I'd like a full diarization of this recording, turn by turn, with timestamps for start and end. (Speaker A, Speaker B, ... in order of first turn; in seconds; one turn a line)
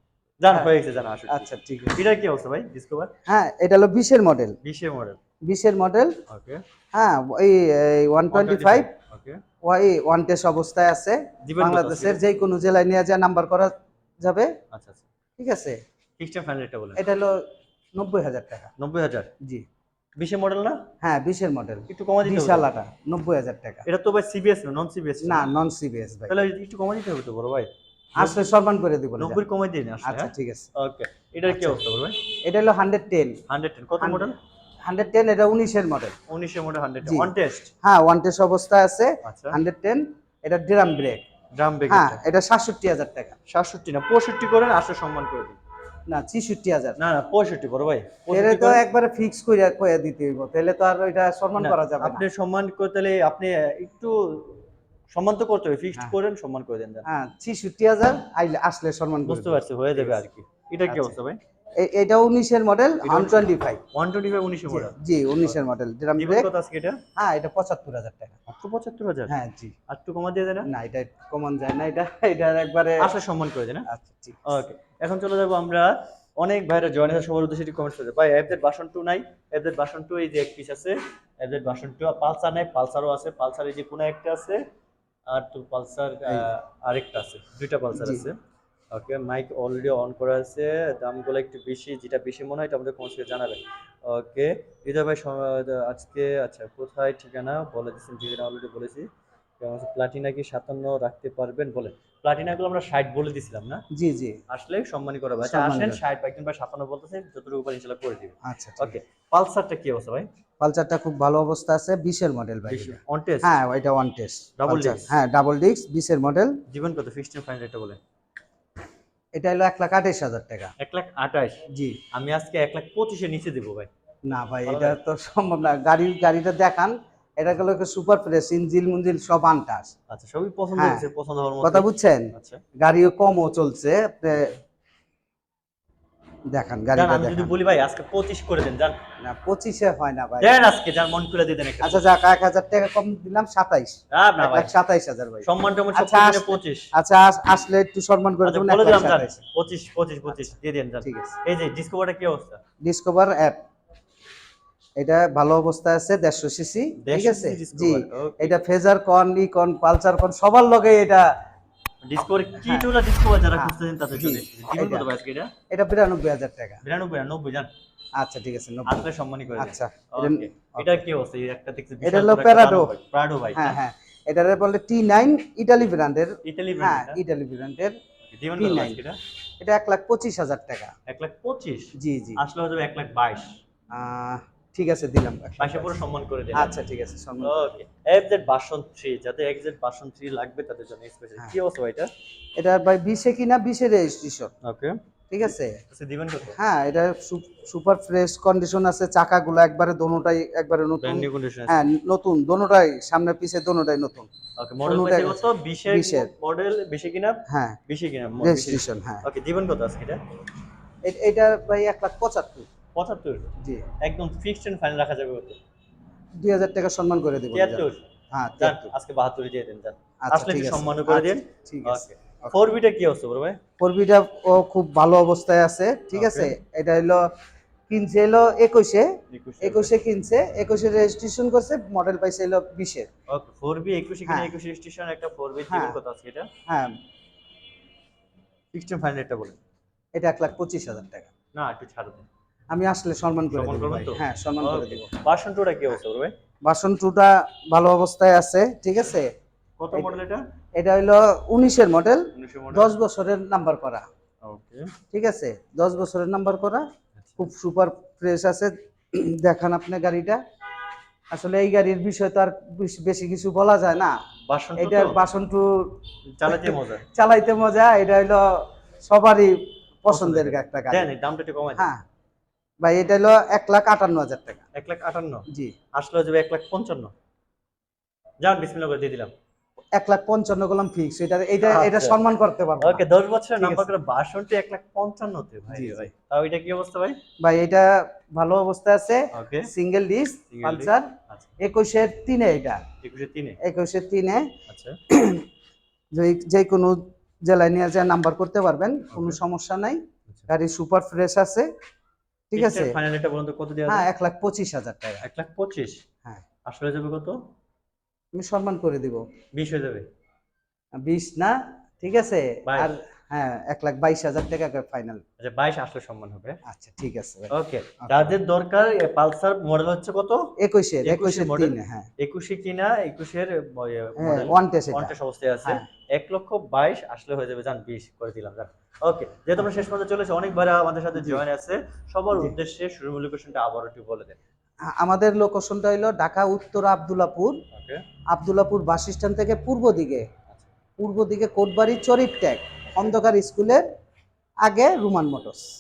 Speaker A: 0.4-3.1
Speaker B: 1.3-2.0
Speaker B: 3.3-4.6
Speaker A: 4.6-5.2
Speaker B: 5.5-6.2
Speaker A: 6.3-6.6
Speaker B: 6.9-8.9
Speaker A: 8.3-9.4
Speaker B: 9.6-14.5
Speaker A: 11.4-12.3
Speaker A: 14.7-15.1
Speaker B: 15.4-15.8
Speaker A: 16.2-17.0
Speaker B: 17.0-18.7
Speaker A: 18.8-19.3
Speaker A: 20.2-20.8
Speaker B: 21.0-23.9
Speaker A: 21.9-22.7
Speaker A: 23.9-25.5
Speaker B: 25.2-26.4
Speaker A: 26.3-28.4
Speaker B: 28.2-29.4
Speaker A: 29.2-32.2
Speaker B: 30.0-30.7
Speaker B: 31.5-31.8
Speaker B: 32.4-33.4
Speaker A: 33.5-34.4
Speaker B: 34.0-34.3
Speaker B: 34.9-36.2
Speaker A: 36.3-37.7
Speaker B: 37.1-37.3
Speaker B: 37.8-41.2
Speaker A: 39.2-39.6
Speaker A: 41.6-42.2
Speaker B: 41.9-43.4
Speaker A: 43.5-45.6
Speaker B: 46.1-47.0
Speaker A: 47.0-48.8
Speaker B: 48.3-52.2
Speaker A: 51.6-57.1
Speaker B: 57.1-60.2
Speaker A: 59.3-61.4
Speaker B: 60.9-61.2
Speaker B: 61.8-63.8
Speaker A: 63.0-65.6
Speaker B: 64.7-66.5
Speaker A: 66.2-67.0
Speaker B: 67.2-68.4
Speaker A: 68.5-69.3
Speaker B: 69.3-69.7
Speaker A: 69.9-70.7
Speaker B: 70.7-73.1
Speaker A: 73.0-73.9
Speaker B: 73.9-74.6
Speaker A: 74.5-84.6
Speaker A: 85.3-88.4
Speaker B: 87.9-88.3
Speaker A: 88.9-99.1
Speaker A: 99.6-103.8
Speaker B: 103.9-104.4
Speaker A: 104.5-110.3
Speaker B: 105.4-106.0
Speaker B: 108.4-109.0
Speaker B: 110.6-116.6
Speaker A: 112.7-113.5
Speaker A: 114.6-115.1
Speaker A: 116.7-118.0
Speaker B: 119.4-120.7
Speaker A: 120.8-121.6
Speaker B: 121.7-122.0
Speaker A: 122.1-123.9
Speaker B: 124.3-129.9
Speaker A: 124.7-125.0
Speaker A: 130.1-132.6
Speaker B: 130.8-131.1
Speaker B: 131.6-134.6
Speaker B: 136.5-137.6
Speaker A: 136.9-139.0
Speaker B: 139.2-140.6
Speaker A: 140.4-142.0
Speaker B: 141.8-149.4
Speaker A: 144.1-144.8
Speaker A: 145.4-146.9
Speaker A: 148.4-152.6
Speaker B: 150.3-151.4
Speaker B: 152.8-153.6
Speaker B: 155.0-161.3
Speaker A: 157.0-158.6
Speaker A: 162.0-165.5
Speaker B: 162.6-162.9
Speaker B: 163.5-165.1
Speaker B: 165.7-166.8
Speaker A: 166.8-167.7
Speaker B: 168.2-171.0
Speaker A: 168.9-173.8
Speaker B: 172.0-172.9
Speaker B: 173.5-177.9
Speaker A: 176.4-177.2
Speaker A: 178.3-179.2
Speaker B: 178.6-179.0
Speaker B: 179.6-180.9
Speaker A: 181.1-183.6
Speaker B: 182.0-182.4
Speaker B: 183.9-186.0
Speaker A: 185.6-186.7
Speaker B: 186.5-187.7
Speaker A: 187.4-192.1
Speaker B: 192.6-194.5
Speaker A: 194.6-195.0
Speaker B: 195.3-195.8
Speaker A: 195.9-196.6
Speaker B: 196.5-204.3
Speaker A: 201.0-201.9
Speaker A: 204.6-210.2
Speaker B: 204.8-206.3
Speaker B: 207.5-207.8
Speaker B: 208.4-209.3
Speaker B: 211.1-212.7
Speaker A: 213.0-213.5
Speaker B: 213.6-213.9
Speaker A: 214.0-215.6
Speaker B: 216.4-218.9
Speaker A: 217.5-218.1
Speaker A: 218.6-223.6
Speaker B: 220.2-222.6
Speaker B: 223.8-227.2
Speaker A: 226.1-226.5
Speaker B: 227.9-233.1
Speaker A: 229.3-230.0
Speaker A: 233.3-236.5
Speaker B: 235.7-236.0
Speaker B: 236.7-237.0
Speaker A: 238.7-239.6
Speaker B: 240.2-241.3
Speaker A: 241.5-242.3
Speaker B: 242.7-245.1
Speaker A: 243.5-246.3
Speaker B: 246.7-249.3
Speaker A: 249.8-250.4
Speaker B: 249.9-250.2
Speaker B: 250.8-254.1
Speaker A: 252.4-252.9
Speaker A: 254.4-254.9
Speaker B: 255.1-256.9
Speaker A: 257.2-257.5
Speaker B: 257.4-260.4
Speaker B: 261.3-264.1
Speaker A: 264.5-265.2
Speaker B: 264.8-271.1
Speaker A: 266.4-267.1
Speaker A: 270.1-271.9
Speaker B: 271.8-272.0
Speaker B: 272.8-274.7
Speaker A: 274.8-277.1
Speaker B: 275.5-275.8
Speaker A: 278.4-279.3
Speaker B: 280.0-283.9
Speaker A: 281.6-282.2
Speaker A: 282.8-287.2
Speaker B: 285.7-286.1
Speaker B: 287.4-292.9
Speaker A: 289.3-289.7
Speaker A: 290.5-291.5
Speaker A: 293.0-293.6
Speaker B: 293.6-294.5
Speaker A: 294.7-295.0
Speaker B: 295.1-295.4
Speaker B: 296.1-301.7
Speaker A: 299.1-299.4
Speaker B: 302.5-303.0
Speaker A: 302.5-304.1
Speaker B: 303.9-305.2
Speaker A: 305.2-306.0
Speaker A: 306.7-307.4
Speaker B: 308.3-309.2
Speaker A: 309.5-310.1
Speaker B: 311.1-315.2
Speaker A: 312.7-312.9
Speaker A: 315.4-316.6
Speaker B: 316.6-318.4
Speaker A: 317.5-320.4
Speaker B: 320.6-322.1
Speaker A: 321.0-334.4
Speaker B: 324.2-325.1
Speaker B: 331.1-331.4
Speaker B: 334.9-337.6
Speaker A: 337.7-338.0
Speaker B: 338.3-340.3
Speaker B: 341.0-343.8
Speaker B: 344.6-345.7